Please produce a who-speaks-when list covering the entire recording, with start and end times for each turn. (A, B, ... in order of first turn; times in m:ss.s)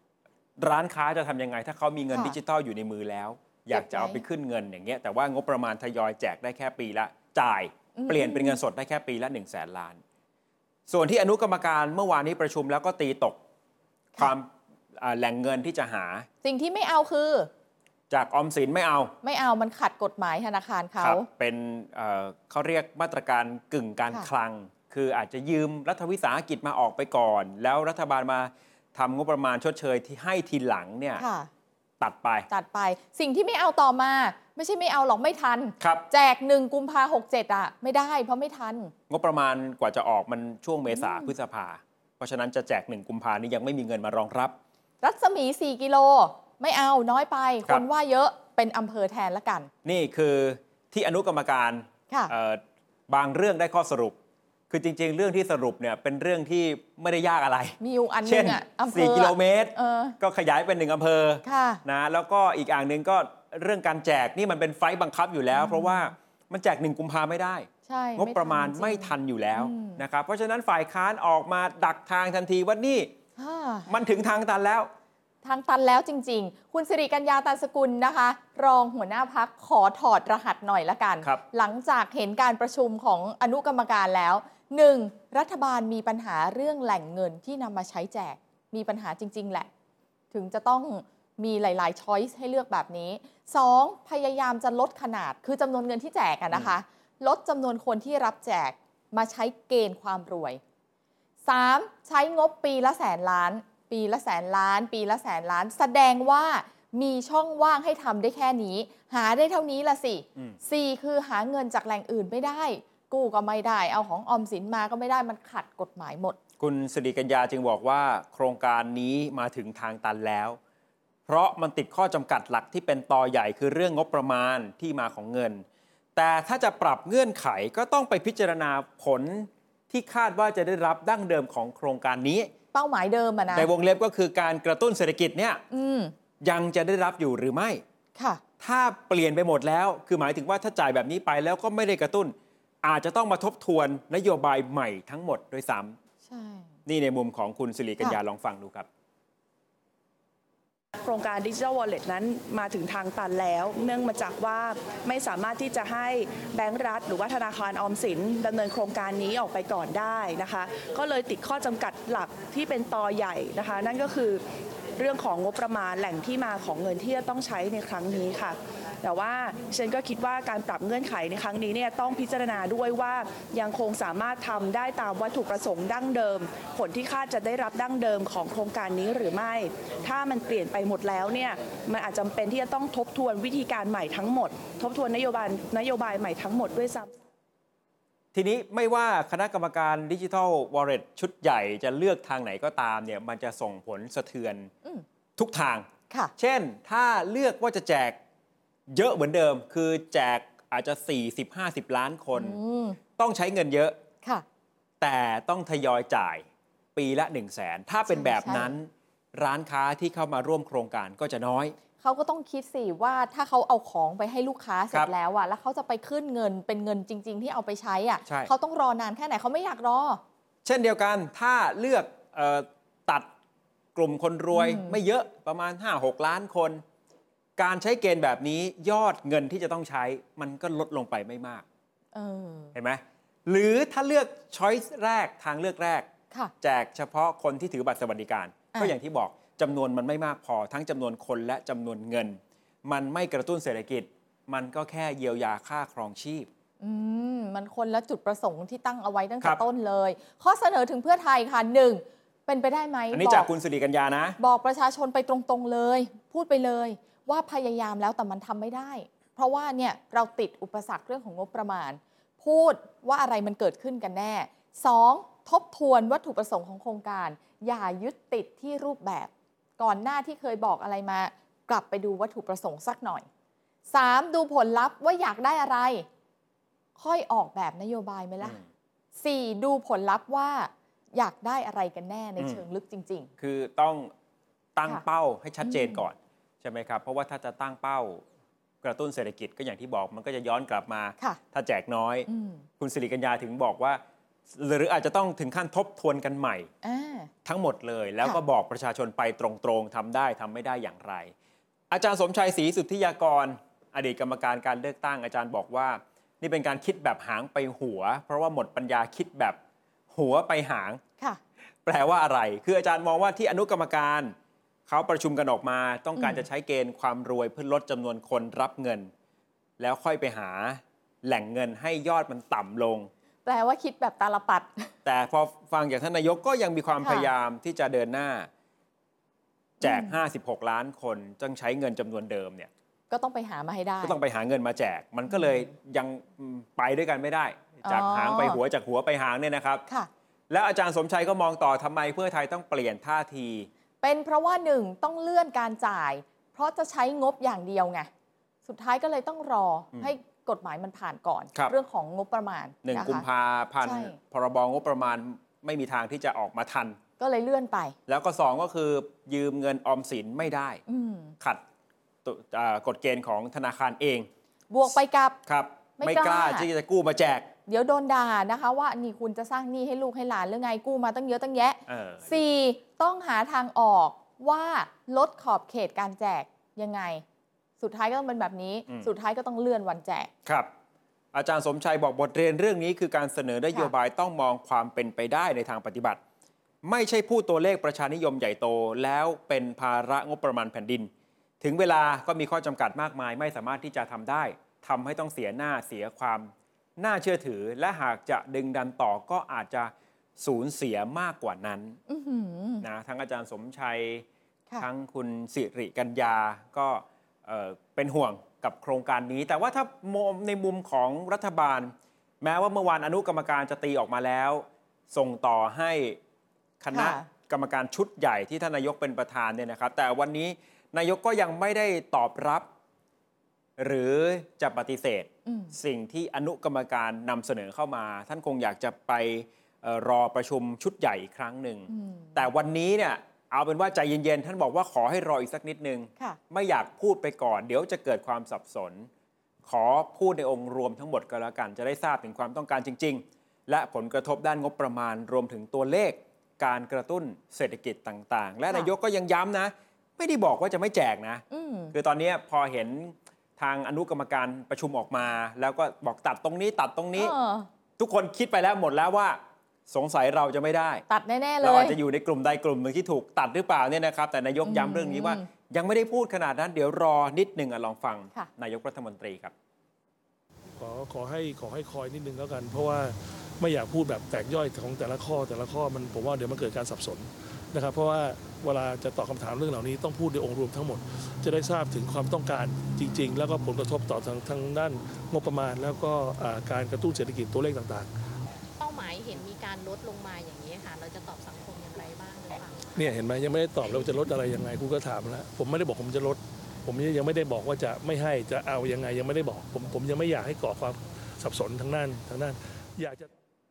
0:00.6-0:10.0 A
0:02.1-0:02.4 B
0:03.7-0:04.2 B
0:08.0-0:08.6 B
0:10.9-0:13.4 A
0:14.2-0:16.3 A
0:16.4-0:17.5 B
0:18.1-0:19.2 A
0:19.2-0:21.3 B
0:21.0-0:31.2 A
0:31.2-0:31.5 B
0:32.0-0:32.5 A
0:32.5-0:38.9 B
0:35.8-0:36.1 A
0:39.1-0:44.6 A
0:40.9-0:41.3 B
0:45.0-0:49.7 B
0:49.8-0:54.2 A
0:54.7-1:13.1 A
0:57.8-1:00.2 B
1:01.4-1:01.8 B
1:05.5-1:06.1 B
1:07.9-1:10.0 B
1:13.4-1:13.9 B
1:13.9-1:14.9 A
1:15.4-1:29.7 B
1:30.3-1:40.6 B
1:41.5-1:56.4 B
1:56.6-2:00.6 A
2:01.3-2:05.6 A
2:06.2-2:12.5 A
2:12.7-2:13.7 B
2:13.5-2:15.6 A
2:15.7-2:16.1 B
2:16.4-2:17.8 A
2:18.2-2:18.4 B
2:18.6-2:26.0 A
2:26.3-2:26.7 B
2:26.9-2:28.9 A
2:31.0-2:44.4 C
2:45.0-3:07.1 C
3:08.3-3:14.7 A
3:15.4-3:18.2 A
3:18.9-3:22.6 A
3:22.4-3:23.0 B
3:23.2-3:24.0 A
3:25.0-3:31.8 A
3:28.1-3:28.8 B
3:32.0-3:40.2 B
3:38.3-3:38.5 A
3:40.6-3:43.3 A
3:44.0-3:46.8 A
3:44.5-3:45.0 B
3:47.6-3:51.6 A
3:52.1-3:52.7 B
3:52.7-3:56.1 A
3:56.6-4:06.5 A
4:06.8-4:13.5 B
4:13.1-4:14.4 A
4:14.4-4:33.3 B
4:33.9-4:36.1 B
4:37.0-4:38.6 B
4:39.2-4:43.3 B
4:43.4-4:44.1 A
4:44.8-4:48.2 A
4:45.6-4:46.0 B
4:48.8-4:52.3 A
4:52.3-4:52.6 B
4:52.8-4:56.7 A
4:56.8-4:57.3 B
4:57.4-5:01.3 A
5:01.9-5:09.6 A
5:10.1-5:11.0 A
5:11.8-5:14.4 A
5:14.9-5:19.1 A
5:16.2-5:16.4 B
5:19.8-5:23.1 A
5:23.4-5:24.9 B
5:25.0-5:28.5 A
5:27.0-5:27.3 B
5:29.8-5:32.7 A
5:29.8-5:30.2 B
5:33.1-5:34.2 B
5:34.0-5:39.8 A
5:35.3-5:35.7 B
5:37.8-5:38.6 B
5:40.5-5:43.7 A
5:44.0-5:48.1 B
5:48.7-5:53.3 B
5:52.8-5:57.0 A
5:53.8-5:54.2 B
5:57.2-5:58.0 B
5:58.1-6:00.8 A
6:00.9-6:01.4 B
6:02.2-6:04.3 A
6:04.7-6:05.4 B
6:05.5-6:07.5 A
6:06.0-6:06.7 B
6:07.7-6:17.2 B
6:11.9-6:12.4 A
6:17.8-6:20.3 B
6:20.5-6:20.7 A
6:21.3-6:26.2 A
6:26.8-6:31.1 A
6:31.6-6:42.0 A
6:42.1-6:42.8 B
6:42.8-6:44.3 A
6:44.8-6:56.2 A
6:56.8-7:02.7 A
6:56.9-6:57.3 B
7:03.8-7:19.1 A
7:05.5-7:05.7 B
7:11.9-7:12.5 B
7:19.6-7:37.3 A
7:31.5-7:31.9 B
7:37.2-7:37.7 B
7:38.0-7:41.0 A
7:41.1-7:42.0 B
7:41.6-7:49.5 A
7:44.6-7:45.5 B
7:50.8-8:08.1 D
8:08.8-8:12.9 E
8:13.0-8:23.3 D